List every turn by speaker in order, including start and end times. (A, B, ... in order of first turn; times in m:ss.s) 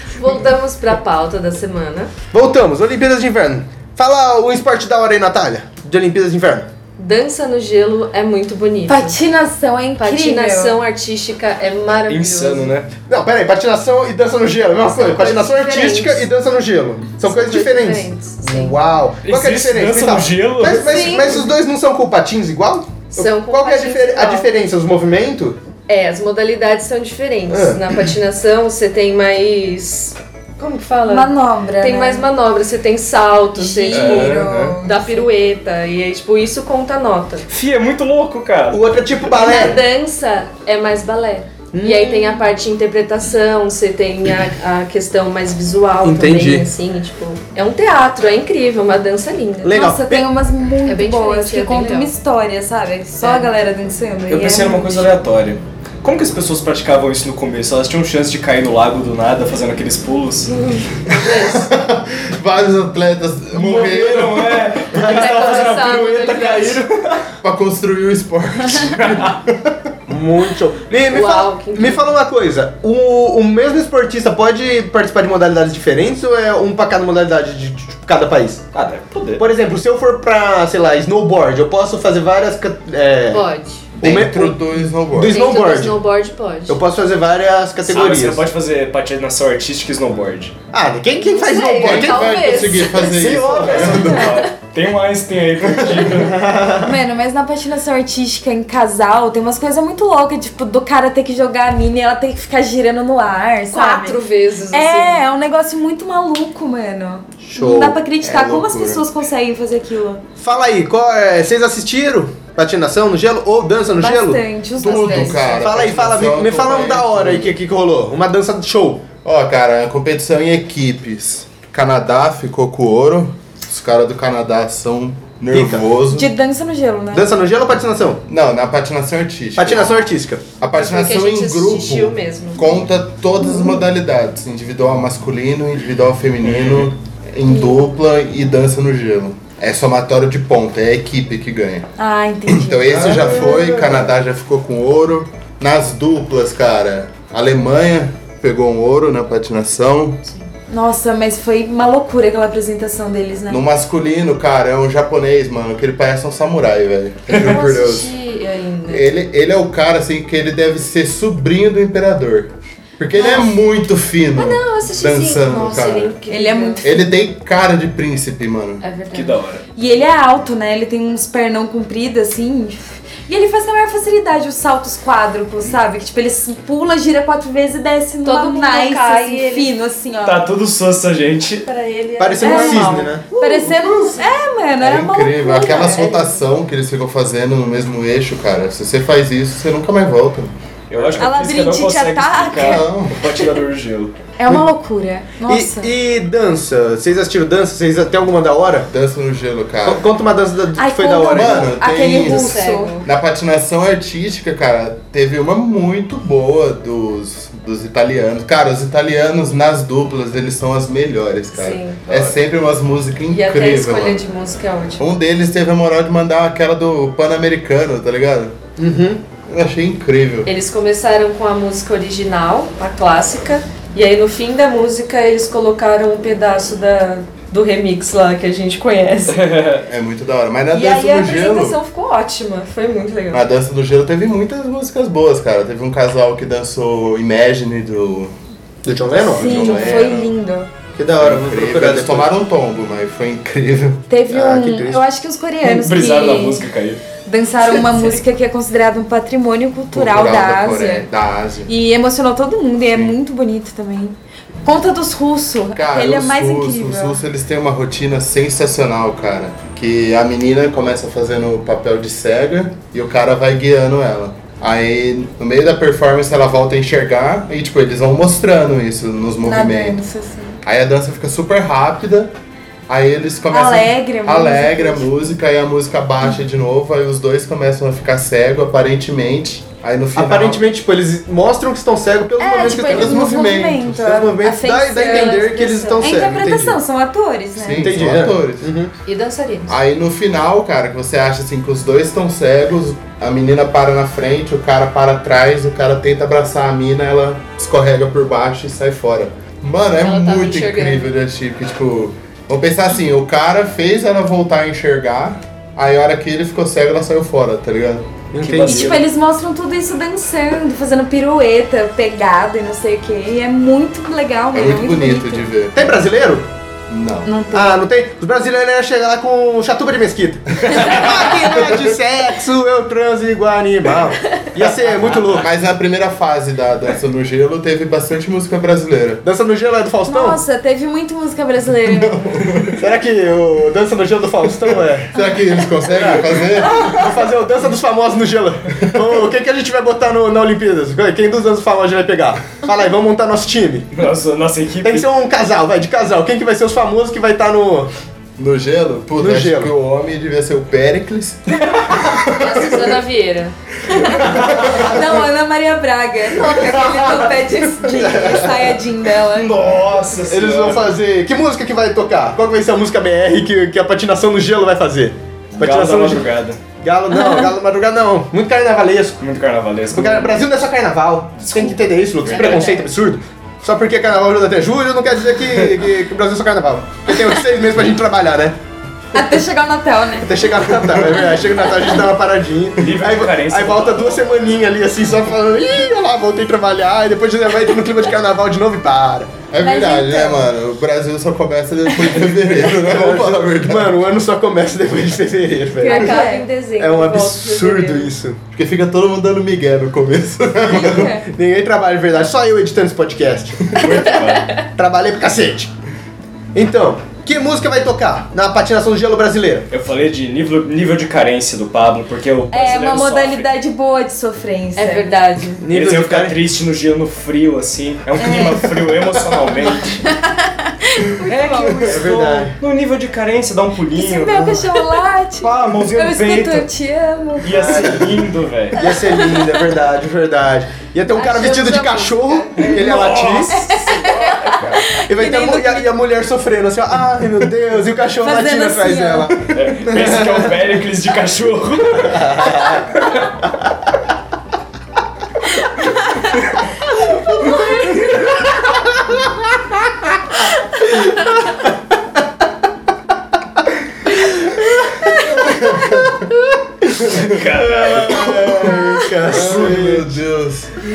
0:00.2-0:02.1 A
0:02.3-0:06.7 B
0:07.0-0:09.2 A
0:08.9-0:10.8 C
0:10.0-0:12.7 A
0:12.1-0:12.9 D
0:13.1-0:25.6 B
0:14.9-0:16.2 A
0:17.2-0:18.8 A
0:19.2-0:21.1 D
0:20.9-0:21.4 A
0:20.9-0:21.5 C
0:23.2-0:24.5 A
0:25.9-0:37.4 A
0:27.5-0:27.8 B
0:31.1-0:32.3 C
0:33.6-0:35.3 C
0:33.9-0:34.8 D
0:37.5-0:38.8 D
0:38.7-0:39.8 B
0:39.3-0:49.8 A
0:41.7-0:42.4 B
0:46.0-0:46.7 B
0:49.6-0:50.3 B
0:49.7-0:55.1 C
0:50.8-0:52.1 A
0:53.2-0:53.5 A
0:54.3-1:00.6 D
1:00.5-1:01.7 A
1:01.3-1:04.7 E
1:03.5-1:07.3 D
1:04.9-1:06.8 B
1:05.1-1:06.8 A
1:07.4-1:09.9 E
1:10.1-1:18.7 B
1:11.1-1:12.1 A
1:18.7-1:19.4 D
1:19.4-1:23.5 B
1:23.3-1:24.0 A
1:24.0-1:25.6 E
1:24.0-1:26.0 B
1:25.3-1:26.8 A
1:26.7-1:28.5 B
1:27.9-1:30.6 D
1:30.7-1:32.4 B
1:31.2-1:33.2 A
1:31.8-1:34.2 E
1:32.9-1:36.5 D
1:33.5-1:34.4 B
1:35.8-1:37.0 B
1:36.8-1:50.2 C
1:43.7-1:45.3 A
1:47.4-1:48.0 B
1:48.2-1:49.0 E
1:50.4-1:54.4 B
1:54.0-1:55.7 C
1:54.8-1:57.6 E
1:54.8-1:55.6 A
1:55.6-1:59.1 B
1:59.2-2:06.3 E
2:05.5-2:05.8 B
2:06.1-2:07.3 C
2:07.1-2:08.2 B
2:08.3-2:10.0 E
2:09.6-2:10.4 B
2:10.6-2:21.9 E
2:10.8-2:12.7 A
2:16.4-2:16.9 D
2:22.0-2:23.5 C
2:22.5-2:30.2 E
2:22.9-2:24.1 B
2:30.7-2:33.6 C
2:33.5-2:38.1 E
2:37.3-2:39.1 A
2:38.9-2:46.2 E
2:43.2-2:43.5 A
2:44.4-2:46.8 A
2:46.3-2:46.9 C
2:46.8-2:48.8 E
2:48.8-2:49.4 A
2:49.1-2:49.6 D
2:49.8-3:00.5 C
2:58.2-2:59.7 A
3:00.2-3:01.7 D
3:01.7-3:04.3 A
3:02.2-3:03.2 B
3:02.4-3:06.0 C
3:04.8-3:10.6 E
3:05.5-3:06.4 A
3:10.9-3:14.1 D
3:11.2-3:12.9 C
3:12.6-3:13.2 E
3:14.4-3:15.9 C
3:15.4-3:18.9 B
3:18.9-3:20.0 E
3:19.8-3:21.7 B
3:20.8-3:23.0 C
3:21.3-3:34.2 E
3:22.1-3:23.1 A
3:31.6-3:32.0 A
3:32.0-3:32.4 D
3:33.3-3:35.0 A
3:35.0-3:38.6 E
3:38.8-3:39.2 B
3:39.5-3:40.5 E
3:40.5-3:49.5 A
3:49.3-3:49.9 D
3:49.9-3:51.8 E
3:50.7-3:53.4 A
3:53.3-3:58.3 E
3:58.8-4:00.3 B
3:59.2-4:00.3 E
3:59.3-4:00.7 C
4:01.0-4:02.4 B
4:01.2-4:04.0 E
4:04.1-4:06.7 C
4:04.3-4:05.0 B
4:05.6-4:07.0 D
4:07.3-4:11.1 C
4:09.9-4:11.7 E
4:11.7-4:17.2 C
4:12.8-4:13.2 E
4:15.8-4:30.0 E
4:29.4-4:30.6 C
4:30.6-4:32.3 E
4:32.9-4:40.6 E
4:33.5-4:35.1 C
4:40.2-4:46.8 B
4:42.4-4:48.0 C
4:42.6-4:44.2 E
4:45.0-4:46.3 A
4:47.6-4:48.7 E
4:47.7-4:48.9 B
4:49.1-4:49.8 A
4:49.7-5:08.1 E
5:00.0-5:01.1 A
5:08.3-5:09.0 B
5:08.4-5:09.0 D
5:08.6-5:15.4 C
5:14.5-5:16.0 E
5:15.7-5:16.5 B
5:16.9-5:17.3 E
5:17.2-5:17.8 C
5:17.5-5:25.5 B
5:25.1-5:25.4 D
5:25.3-5:29.2 E
5:29.2-5:30.4 B
5:30.1-5:32.4 C
5:31.9-5:32.9 E
5:32.8-5:35.2 B
5:35.1-5:37.0 E
5:35.8-5:43.9 B
5:38.8-5:39.2 E
5:43.9-5:45.1 D
5:44.8-5:47.9 B
5:48.4-5:52.8 E
5:49.2-5:49.7 B
5:52.3-5:53.6 A
5:53.9-5:59.5 C
5:54.4-5:55.1 E
5:57.9-5:58.8 B
5:59.3-6:01.0 D
6:00.3-6:06.3 B
6:05.6-6:06.6 D
6:06.8-6:09.2 B
6:07.1-6:07.5 C
6:09.2-6:10.4 D
6:09.9-6:18.6 B
6:11.4-6:12.8 D
6:12.3-6:12.9 A
6:19.1-6:20.4 C
6:20.2-6:29.4 B
6:22.8-6:24.7 D
6:29.5-6:34.0 E
6:29.6-6:30.5 C
6:32.5-6:36.2 B
6:35.8-6:36.5 C
6:35.8-6:38.1 A
6:36.8-6:38.4 B
6:38.5-6:41.1 E
6:40.7-6:45.7 B
6:40.7-6:41.2 C
6:43.7-6:44.6 D
6:46.5-6:49.7 B
6:49.7-6:53.5 D
6:52.5-6:55.2 C
6:54.8-6:55.6 A
6:55.6-6:56.4 B
6:55.7-7:00.0 D
6:58.2-6:58.7 C
7:00.1-7:02.0 C
7:01.9-7:02.6 B
7:01.9-7:04.6 D
7:04.0-7:07.9 C
7:05.4-7:06.7 D
7:07.4-7:08.8 D
7:07.6-7:08.1 B
7:08.8-7:13.6 B
7:08.8-7:09.5 C
7:11.2-7:12.8 A
7:11.7-7:12.0 C
7:12.6-7:14.8 D
7:13.5-7:15.9 C
7:15.1-7:20.5 B
7:18.2-7:19.3 C
7:19.5-7:23.3 D
7:22.1-7:22.8 B
7:25.8-7:26.2 C
7:30.9-7:31.7 B
7:34.1-7:35.7 B
7:35.4-7:36.3 E
7:36.8-7:40.2 B
7:37.1-7:38.8 D
7:38.4-7:40.8 E